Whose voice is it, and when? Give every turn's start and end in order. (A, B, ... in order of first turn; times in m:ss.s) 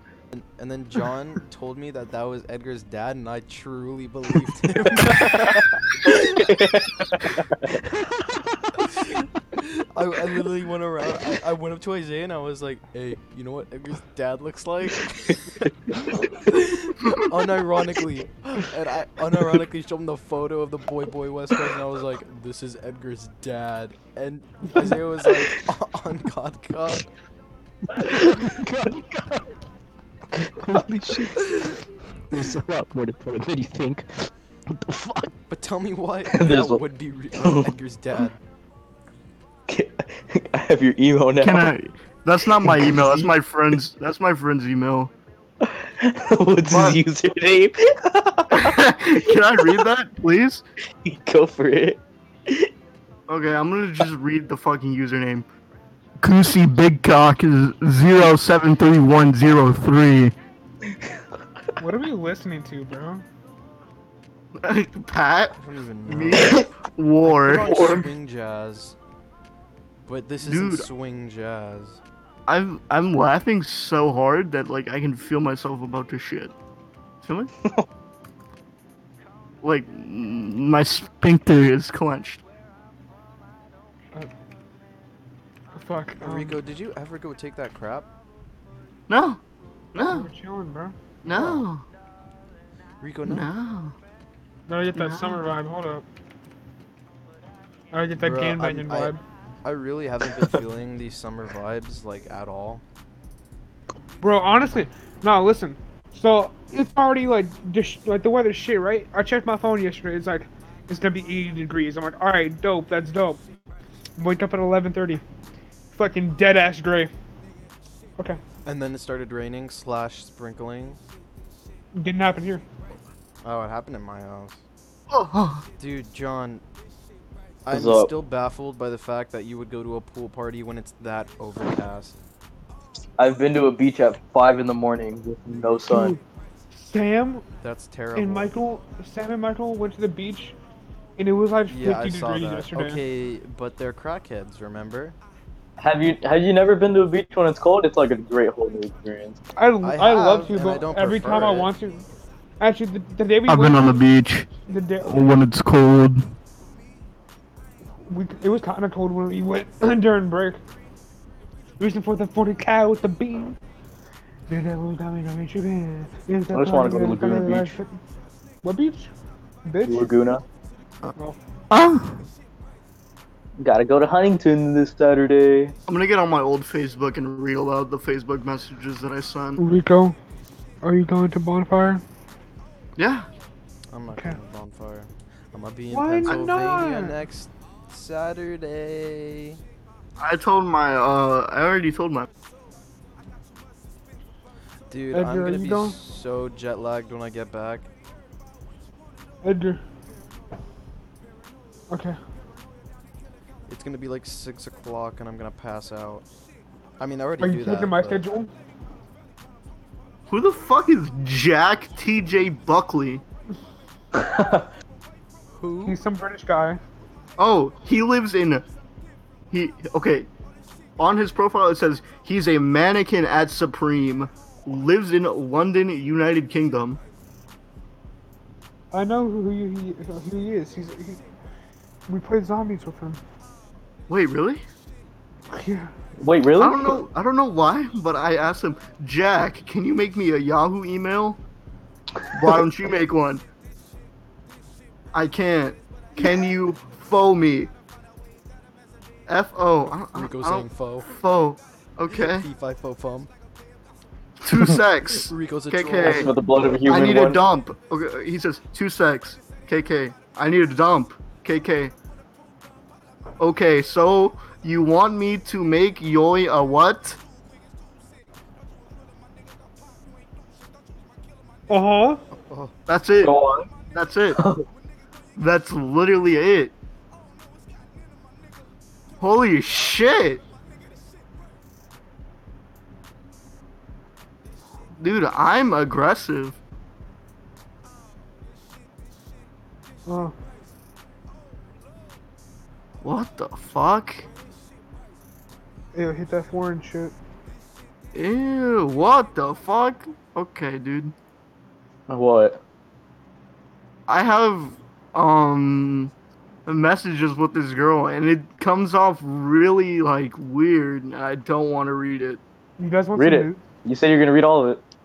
0:00.3-0:06.2 A
0:06.1-0:07.8 B
0:08.9-0:15.4 A
0:15.6-0:16.0 B
0:16.5-0:27.1 A
0:28.1-0:29.4 C
0:30.6-0:31.6 C
0:32.3-0:35.3 C
0:35.5-0:38.4 A
0:36.3-0:36.8 B
0:37.4-0:37.7 B
0:39.7-0:41.7 B
0:41.4-0:45.1 D
0:42.6-0:43.4 B
0:45.6-0:49.9 B
0:46.7-0:47.0 D
0:48.5-0:50.6 D
0:51.1-0:52.7 B
0:53.3-0:55.5 D
0:56.2-1:00.4 D
1:01.8-1:03.2 E
1:04.6-1:08.1 D
1:05.5-1:06.6 A
1:07.2-1:09.0 A
1:10.1-1:12.0 A
1:10.4-1:10.9 D
1:12.5-1:16.5 D
1:17.2-1:17.5 D
1:19.6-1:22.4 D
1:25.8-1:26.6 E
1:26.2-1:28.1 A
1:29.1-1:29.4 D
1:29.9-1:30.3 D
1:30.0-1:31.0 E
1:31.2-1:31.8 D
1:31.3-1:31.7 A
1:33.0-1:33.5 A
1:33.3-1:34.0 D
1:34.7-1:36.0 E
1:35.0-1:35.4 D
1:37.9-1:39.2 E
1:38.2-1:42.8 A
1:44.2-1:53.4 E
1:54.2-1:55.2 E
1:55.9-1:57.1 E
1:58.6-2:01.0 A
2:02.0-2:02.6 E
2:03.4-2:04.6 A
2:05.1-2:05.7 D
2:05.8-2:06.6 A
2:07.6-2:12.2 A
2:07.7-2:08.1 B
2:13.2-2:16.2 B
2:15.9-2:16.2 E
2:16.7-2:17.4 E
2:17.6-2:18.5 A
2:18.2-2:20.6 E
2:21.2-2:23.0 E
2:21.7-2:25.2 A
2:25.8-2:29.4 B
2:29.6-2:32.1 E
2:29.8-2:31.7 A
2:32.6-2:34.0 E
2:33.5-2:34.5 D
2:34.7-2:35.3 E
2:35.0-2:36.3 D
2:38.1-2:40.6 E
2:41.8-2:43.6 E
2:44.5-2:48.0 E
2:46.5-2:47.8 B
2:48.6-2:49.1 E
2:49.6-2:50.1 E
2:49.8-2:50.4 B
2:51.7-2:52.2 D
2:53.6-2:55.8 B
2:55.9-2:59.6 D
2:59.6-3:00.2 E
3:00.8-3:02.0 E
3:03.0-3:03.3 D
3:03.9-3:09.6 A
3:05.9-3:07.2 E
3:10.2-3:12.3 D
3:14.9-3:17.9 A
3:15.1-3:16.0 E
3:19.4-3:19.8 E
3:21.9-3:22.2 E
3:23.7-3:26.2 A
3:27.0-3:28.2 A
3:27.4-3:28.5 E
3:30.3-3:33.2 D
3:34.1-3:34.7 B
3:35.5-3:36.0 A
3:35.8-3:36.8 E
3:37.4-3:38.6 D
3:39.5-3:40.3 D
3:41.0-3:47.0 D
3:48.9-3:51.2 E
3:52.1-3:53.2 E
3:54.1-3:54.6 D
3:55.5-3:55.9 E
3:56.2-3:57.0 B
3:56.6-4:01.4 D
4:02.3-4:03.4 D
4:05.1-4:07.7 D
4:09.3-4:12.5 D
4:09.9-4:11.1 A
4:12.1-4:13.3 A
4:14.4-4:16.3 D
4:15.1-4:16.4 A
4:16.0-4:17.4 B
4:16.8-4:21.9 D
4:23.4-4:27.2 D
4:31.7-4:32.2 E
4:32.3-4:32.7 A
4:32.9-4:34.4 D
4:33.2-4:33.7 B
4:34.4-4:34.6 B
4:35.4-4:36.8 D
4:39.2-4:40.4 D
4:45.0-4:46.6 D
4:50.1-4:50.4 E
4:53.0-4:54.3 D
4:55.9-4:57.1 E
4:58.1-5:01.2 D
5:02.1-5:02.6 B
5:04.1-5:06.1 D
5:06.7-5:12.4 D
5:12.8-5:13.6 E
5:13.2-5:14.8 B